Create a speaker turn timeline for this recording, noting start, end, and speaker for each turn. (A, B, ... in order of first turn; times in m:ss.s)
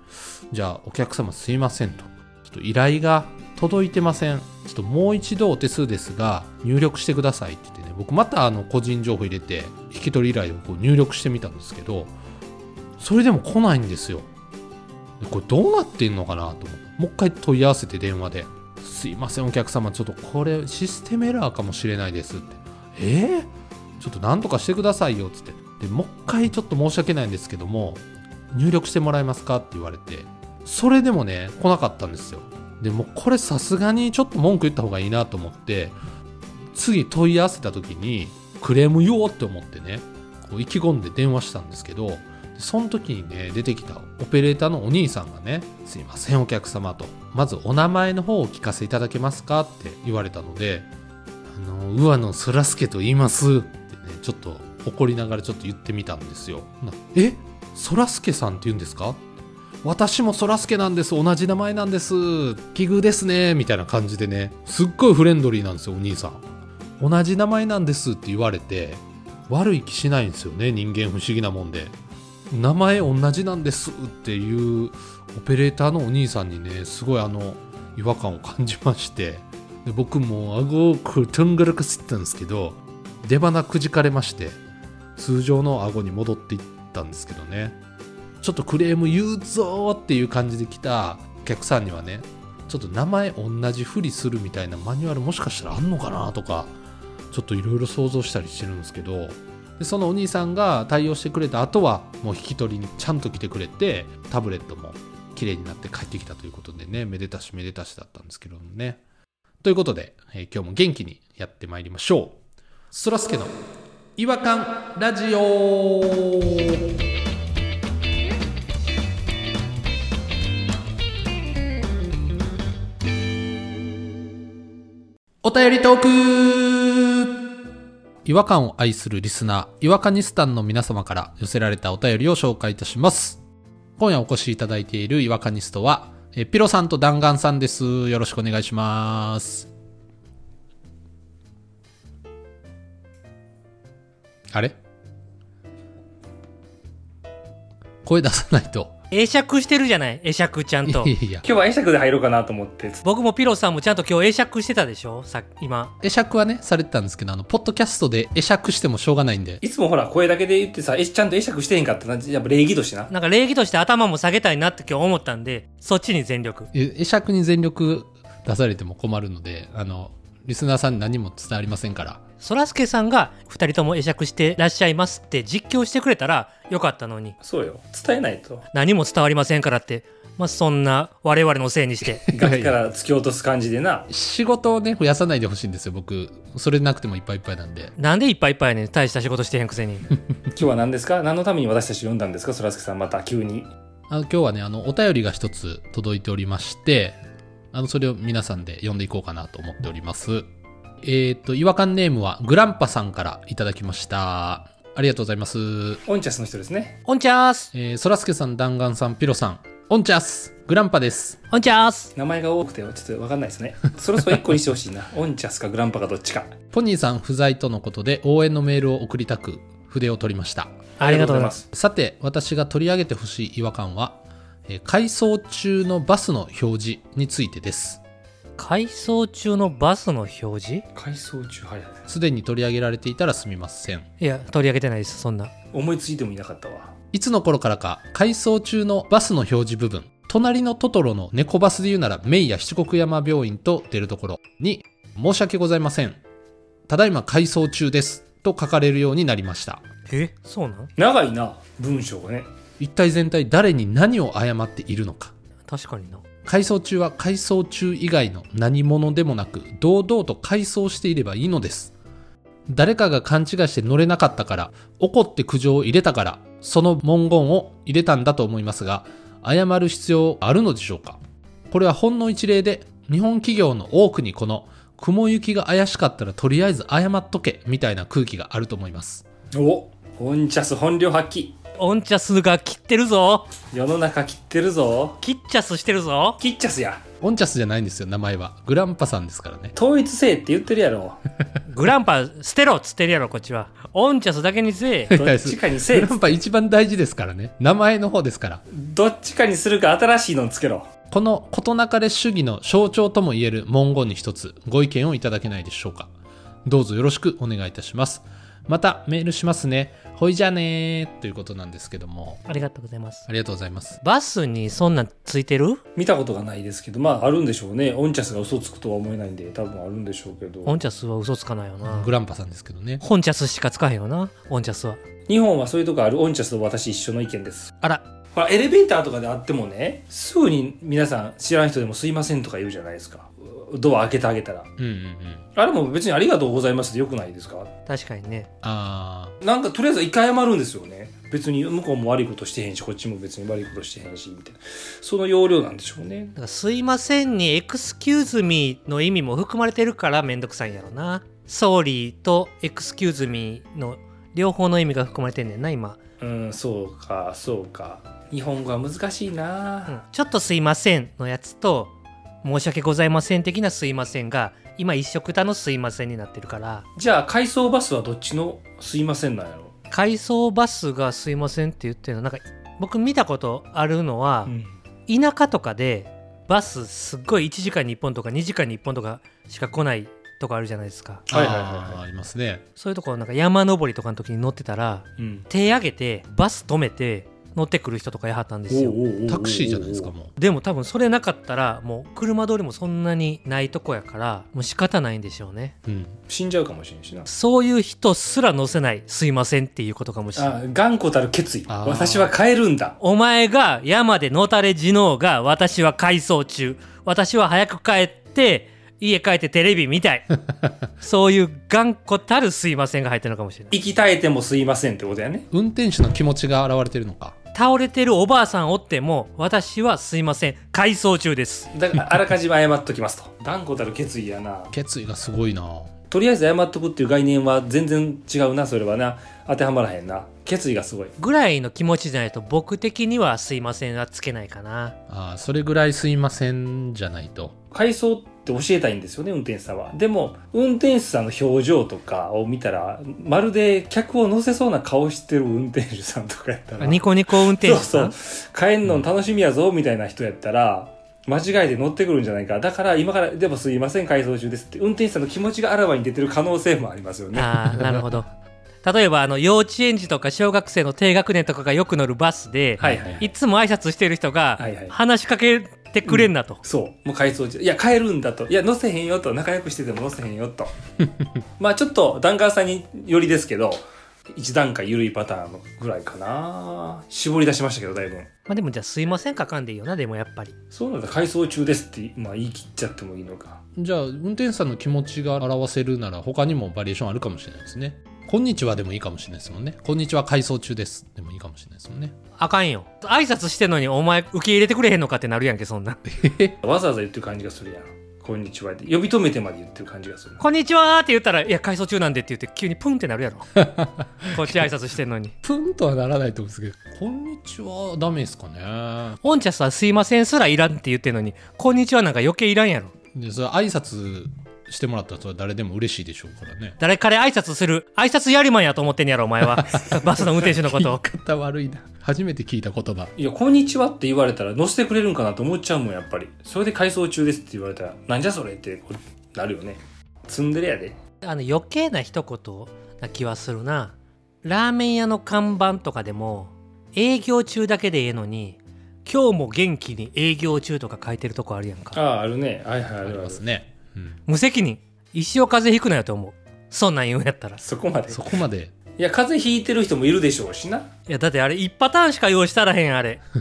0:00.5-0:12.1 A
0:13.0-0:14.3 A
0:15.2-0:36.0 A
0:36.7-0:50.9 A
0:51.5-0:59.2 A
0:59.8-1:06.4 A
1:07.0-1:12.0 A
1:12.5-1:24.6 A
1:25.2-1:27.8 A
1:28.4-1:36.8 A
1:37.3-1:49.0 A
1:49.6-1:52.4 A
1:52.9-1:53.6 A
1:54.2-1:56.8 A
2:05.4-2:07.3 A
2:08.2-2:13.4 A
2:14.0-2:19.7 A
2:24.5-2:24.8 A
2:28.0-2:28.9 A
2:29.1-2:31.1 B
2:30.8-2:31.4 A
2:31.4-2:33.0 C
2:33.0-2:35.9 B
2:36.0-2:39.6 A
2:39.6-2:43.1 C
2:43.1-2:46.7 B
2:46.7-2:52.2 A
2:52.4-2:57.4 B
2:57.4-2:58.6 C
2:58.7-3:02.3 B
3:02.3-3:02.8 A
3:02.3-3:04.1 C
3:04.1-3:07.9 A
3:08.0-3:10.1 B
3:10.5-3:13.7 C
3:14.1-3:17.2 A
3:17.7-3:20.5 A
3:21.0-3:26.0 A
3:26.0-3:27.0 C
3:27.0-3:27.7 B
3:27.7-3:31.4 A
3:31.5-3:32.1 B
3:32.2-3:36.5 C
3:36.7-3:40.9 A
3:41.0-3:41.6 B
3:41.0-3:41.6 C
3:41.7-3:48.0 A
3:48.6-3:50.8 B
3:50.9-3:52.1 C
3:52.1-3:54.0 A
3:54.2-3:55.5 B
3:55.7-3:56.9 C
3:57.1-4:06.2 A
4:06.9-4:09.8 A
4:10.1-4:10.9 B
4:11.0-4:12.5 C
4:12.8-4:15.3 A
4:15.7-4:16.2 B
4:16.4-4:21.9 A
4:22.7-4:31.2 A
4:31.7-4:39.2 A
4:39.5-4:41.6 C
4:41.8-4:43.5 B
4:43.7-4:45.2 C
4:45.2-4:46.4 B
4:46.4-4:47.0 C
4:47.2-4:49.7 A
4:49.7-4:51.2 C
4:51.6-4:55.1 B
4:55.1-4:58.6 A
4:55.1-4:56.2 C
4:58.7-5:00.9 C
5:01.1-5:06.1 A
5:06.6-5:12.4 A
5:12.4-5:13.3 B
5:13.3-5:14.0 A
5:14.0-5:15.8 B
5:16.0-5:20.8 C
5:20.6-5:22.1 B
5:21.8-5:23.0 A
5:23.0-5:25.0 B
5:25.3-5:27.7 C
5:28.3-5:34.7 C
5:34.8-5:35.5 A
5:35.6-5:37.7 C
5:37.9-5:38.5 B
5:38.6-5:39.3 A
5:39.4-5:46.3 C
5:46.4-5:56.0 B
5:56.2-6:00.0 C
5:59.9-6:06.8 B
6:07.0-6:09.7 C
6:09.9-6:14.5 B
6:14.5-6:14.7 C
6:15.1-6:21.2 B
6:21.3-6:22.0 C
6:21.3-6:22.6 A
6:22.8-6:29.0 B
6:25.2-6:25.5 C
6:28.7-6:30.1 C
6:29.3-6:30.3 A
6:30.4-6:35.7 B
6:35.8-6:36.2 A
6:36.3-6:37.3 C
6:37.2-6:40.6 B
6:40.3-6:43.0 C
6:41.7-6:42.3 A
6:43.0-6:50.3 B
6:51.0-6:53.7 B
6:53.7-6:55.5 C
6:55.5-6:57.3 A
6:57.5-7:01.7 B
7:01.7-7:04.7 C
7:04.7-7:05.9 A
7:06.1-7:11.1 C
7:11.2-7:15.0 B
7:15.1-7:17.6 A
7:17.7-7:37.5 C
7:26.8-7:28.1 B
7:37.3-7:38.3 B
7:37.7-7:38.0 A
7:38.8-7:46.6 B
7:42.8-7:43.2 A
7:42.8-7:43.3 C
7:44.6-7:44.9 C
7:46.1-7:50.7 C
7:51.0-7:51.3 A
7:51.6-7:58.3 C
7:58.5-8:00.5 B
8:00.7-8:03.6 C
8:03.8-8:12.1 A
8:12.4-8:16.0 B
8:16.1-8:16.6 A
8:16.6-8:20.4 C
8:20.4-8:23.5 B
8:23.6-8:24.5 A
8:24.3-8:25.3 B
8:25.4-8:29.2 A
8:29.2-8:32.9 B
8:33.1-8:36.8 A
8:36.8-8:41.0 B
8:39.7-8:43.1 A
8:43.2-8:51.0 C
8:51.2-9:02.0 B
9:01.9-9:03.4 C
9:03.0-9:04.2 A
9:04.2-9:07.6 B
9:07.6-9:08.2 C
9:08.1-9:08.7 A
9:09.0-9:10.9 C
9:11.1-9:13.2 B